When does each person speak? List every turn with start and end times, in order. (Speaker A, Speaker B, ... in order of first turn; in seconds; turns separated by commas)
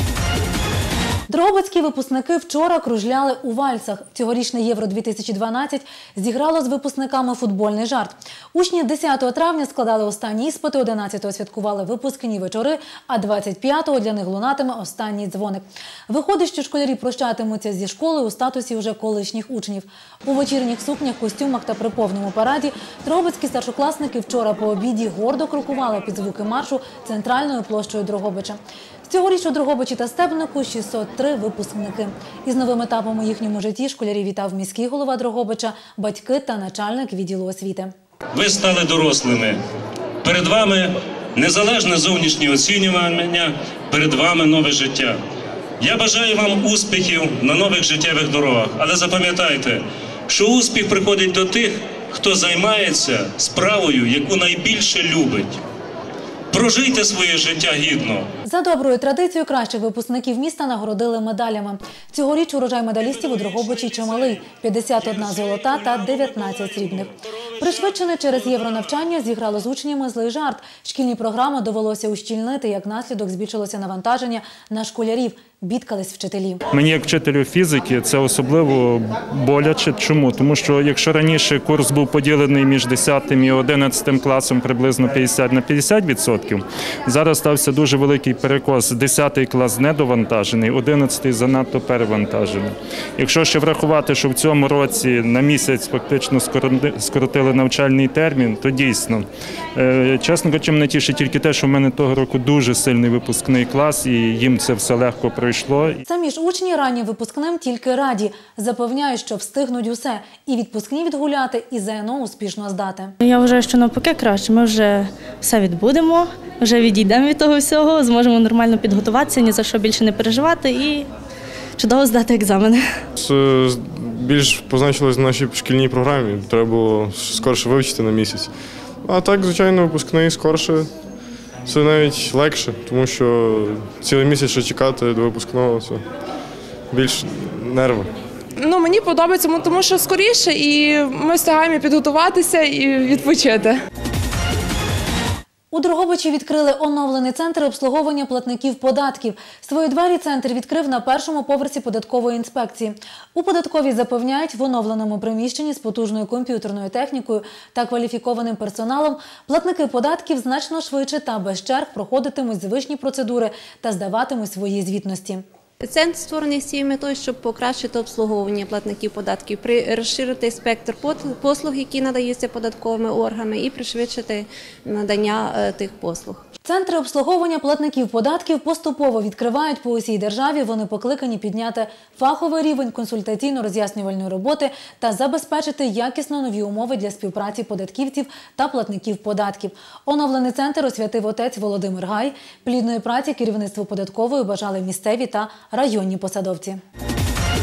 Speaker A: 1.3-37.9, Speaker B: 38.3-39.6, Speaker B: 40.2-45.2, Speaker B: 45.8-55.6, Speaker B: 56.5-58.3, Speaker A: 58.5-76.6, Speaker C: 76.7-106.0, Speaker A: 106.1-113.1, Speaker D: 113.2-121.1, Speaker D: 121.8-123.0, Speaker E: 123.2-128.5, Speaker E: 129.0-130.9, Speaker E: 131.7-136.0, Speaker E: 136.9-138.1, Speaker F: 138.7-143.7, Speaker A: 145.7-165.4, Speaker G: 165.8-176.5, Speaker A: 176.7-196.8